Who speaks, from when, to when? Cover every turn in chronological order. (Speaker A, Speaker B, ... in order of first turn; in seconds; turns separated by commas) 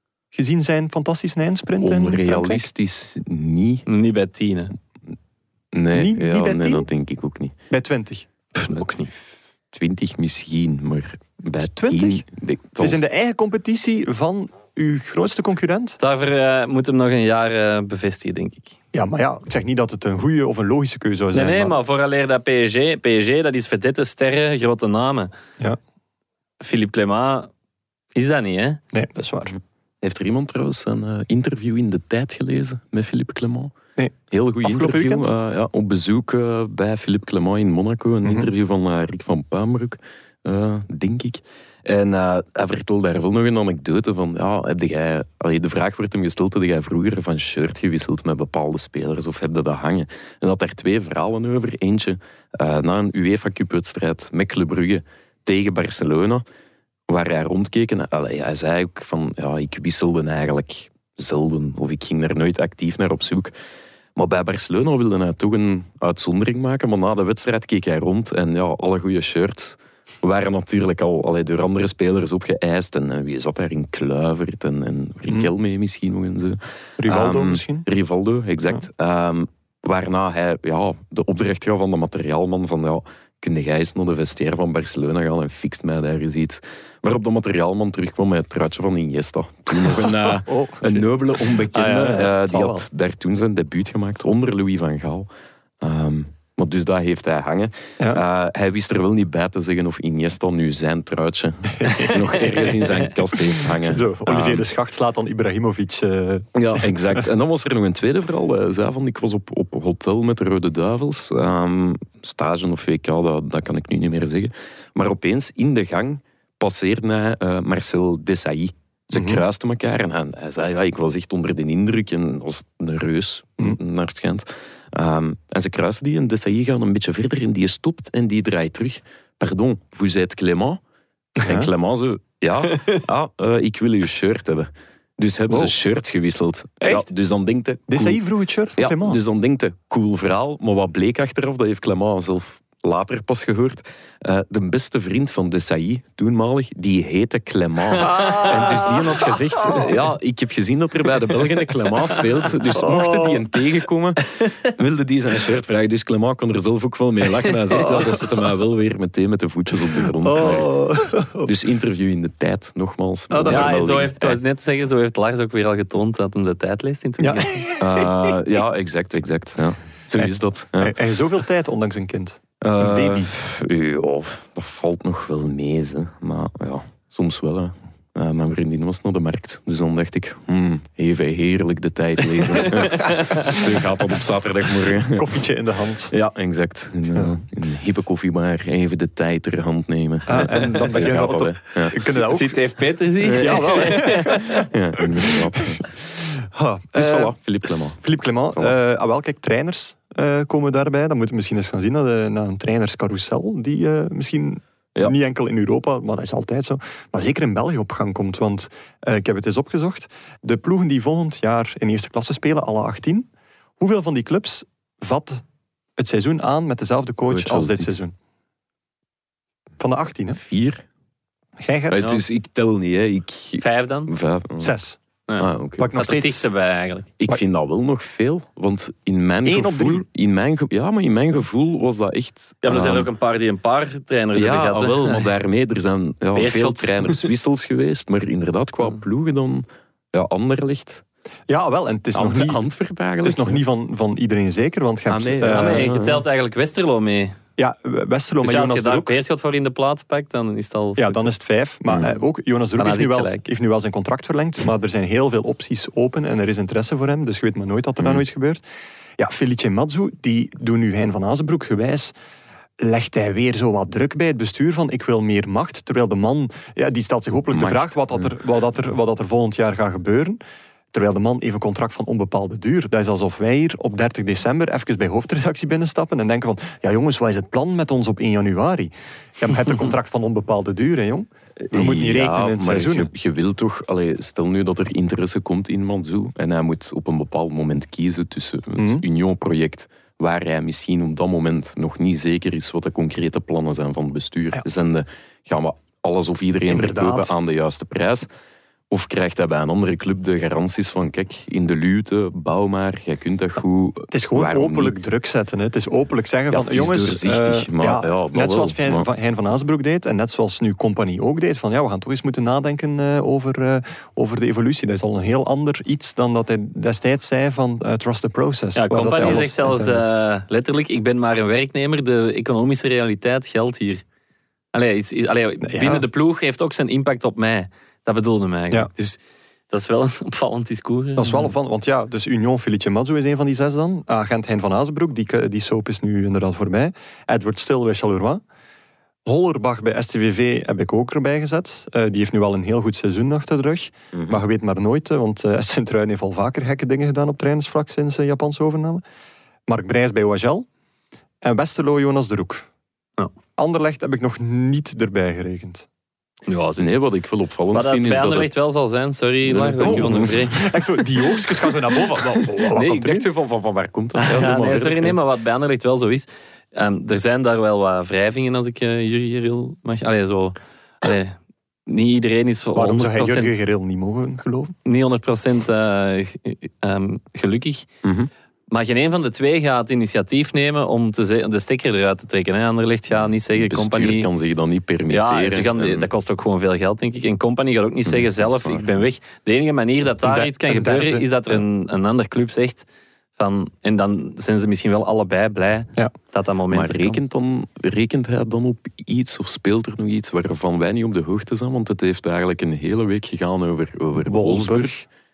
Speaker A: 0.3-2.7, Speaker B: 1.8-3.8, Speaker C: 3.9-4.7, Speaker B: 5.7-7.5, Speaker A: 5.9-6.9, Speaker A: 7.7-8.3, Speaker C: 8.6-9.1, Speaker B: 9.7-13.0, Speaker A: 11.6-12.2, Speaker A: 12.8-16.0, Speaker C: 16.0-18.8, Speaker A: 18.9-21.7, Speaker C: 21.3-25.3, Speaker C: 26.6-27.5, Speaker C: 28.1-28.8, Speaker A: 28.9-29.5, Speaker B: 29.4-33.7, Speaker A: 34.0-35.3, Speaker B: 34.3-56.4, Speaker B: 57.1-63.5, Speaker B: 64.2-95.3, Speaker A: 77.0-77.8, Speaker A: 89.8-92.8, Speaker B: 95.8-104.7, Speaker A: 101.8-107.2, Speaker B: 106.5-130.8, Speaker A: 119.1-119.4, Speaker A: 131.4-131.7, Speaker B: 131.4-138.2, Speaker A: 137.9-139.2, Speaker B: 138.8-160.7, Speaker A: 148.0-149.9, Speaker A: 152.8-153.4, Speaker A: 160.2-161.5, Speaker B: 161.4-164.4, Speaker A: 163.3-163.7, Speaker C: 163.4-167.7, Speaker A: 167.2-168.1, Speaker B: 167.8-170.9, Speaker A: 170.2-173.3, Speaker B: 172.6-185.4, Speaker C: 182.6-183.5, Speaker A: 185.1-186.1, Speaker B: 186.1-192.0, Speaker A: 190.2-192.6, Speaker C: 192.2-194.6, Speaker B: 193.2-194.0, Speaker A: 193.3-197.3, Speaker B: 194.5-195.8, Speaker B: 196.9-198.0, Speaker A: 198.0-213.3, Speaker A: 213.8-215.4, Speaker A: 216.0-218.1, Speaker B: 217.3-217.9, Speaker A: 219.8-220.4, Speaker B: 220.4-220.8, Speaker A: 221.6-222.0, Speaker B: 221.9-224.7, Speaker C: 223.6-224.1, Speaker A: 224.6-225.0, Speaker C: 225.3-227.1, Speaker B: 225.4-225.9, Speaker A: 225.8-226.5, Speaker B: 227.2-233.1, Speaker A: 229.4-230.0, Speaker C: 232.6-235.2, Speaker B: 234.3-241.0, Speaker C: 236.3-237.2, Speaker A: 241.5-242.6, Speaker B: 242.1-243.6, Speaker A: 243.2-245.9, Speaker B: 245.1-246.2, Speaker C: 245.4-247.4, Speaker A: 247.6-249.2, Speaker C: 248.4-251.3, Speaker A: 250.9-258.6, Speaker C: 252.8-253.4, Speaker A: 259.2-262.1, Speaker A: 262.8-270.4, Speaker B: 267.5-268.3, Speaker A: 270.9-283.1, Speaker B: 281.7-298.3, Speaker A: 288.7-289.0, Speaker A: 296.7-297.3, Speaker B: 298.9-305.0, Speaker A: 304.1-320.0, Speaker B: 306.5-309.1, Speaker C: 318.8-324.0, Speaker C: 324.7-329.2, Speaker A: 325.6-326.0, Speaker C: 329.7-331.5, Speaker A: 331.2-338.4, Speaker A: 339.2-349.0, Speaker B: 344.1-344.4, Speaker A: 349.7-350.7, Speaker A: 351.4-352.7, Speaker A: 353.6-355.9, Speaker C: 356.5-356.9, Speaker B: 356.8-358.6, Speaker C: 357.7-360.6, Speaker B: 359.4-360.5, Speaker A: 359.8-363.3, Speaker B: 362.5-365.2, Speaker C: 364.2-373.6, Speaker A: 372.7-374.7, Speaker C: 374.8-377.9, Speaker B: 378.0-378.3, Speaker C: 378.7-384.3, Speaker B: 383.1-386.1, Speaker C: 385.1-397.2, Speaker B: 388.1-389.0, Speaker A: 390.2-391.6, Speaker B: 396.7-405.0, Speaker A: 404.2-405.0